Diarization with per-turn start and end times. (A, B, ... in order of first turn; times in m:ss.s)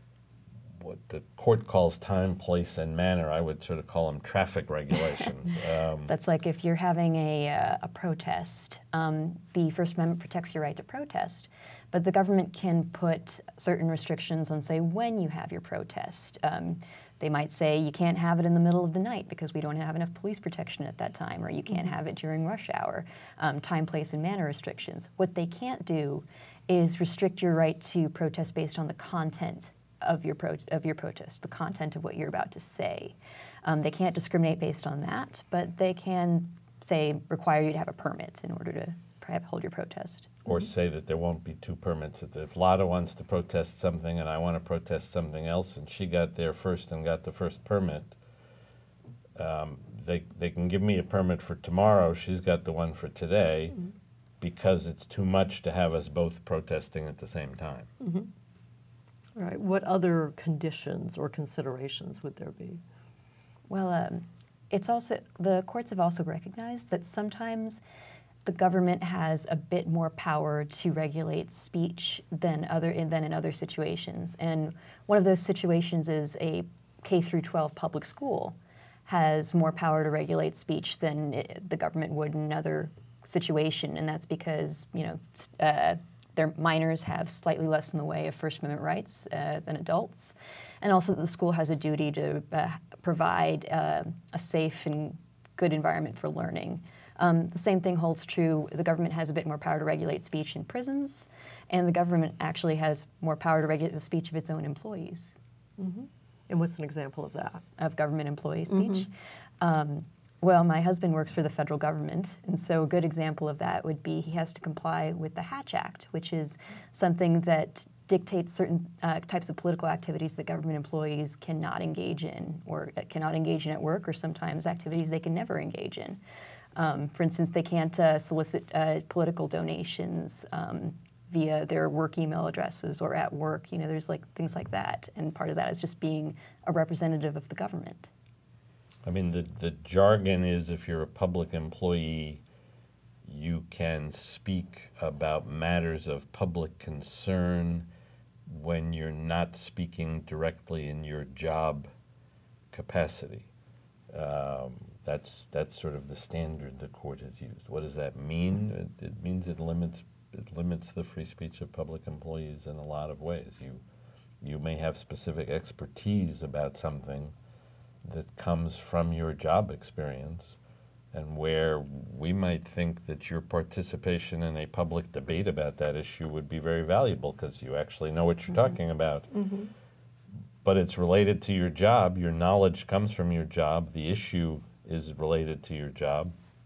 0:00.8-0:06.1 A
0:06.1-0:40.5 B
0:40.5-0:48.2 A
0:49.4-0:53.8 A
0:54.4-0:57.9 A
0:58.0-0:58.3 C
0:59.4-1:02.8 C
1:03.7-1:07.8 B
1:08.4-1:45.4 B
1:45.8-1:47.6 C
1:47.8-2:06.2 B
1:48.8-1:49.0 C
2:06.8-2:18.1 B
2:19.0-2:22.4 A
2:23.2-2:27.9 A
2:28.5-2:31.9 A
2:32.7-2:33.5 A
2:34.1-2:43.8 A
2:44.4-2:47.3 A
2:48.0-2:50.6 A
2:51.1-2:59.3 A
2:59.3-2:59.7 C
3:00.6-3:06.3 A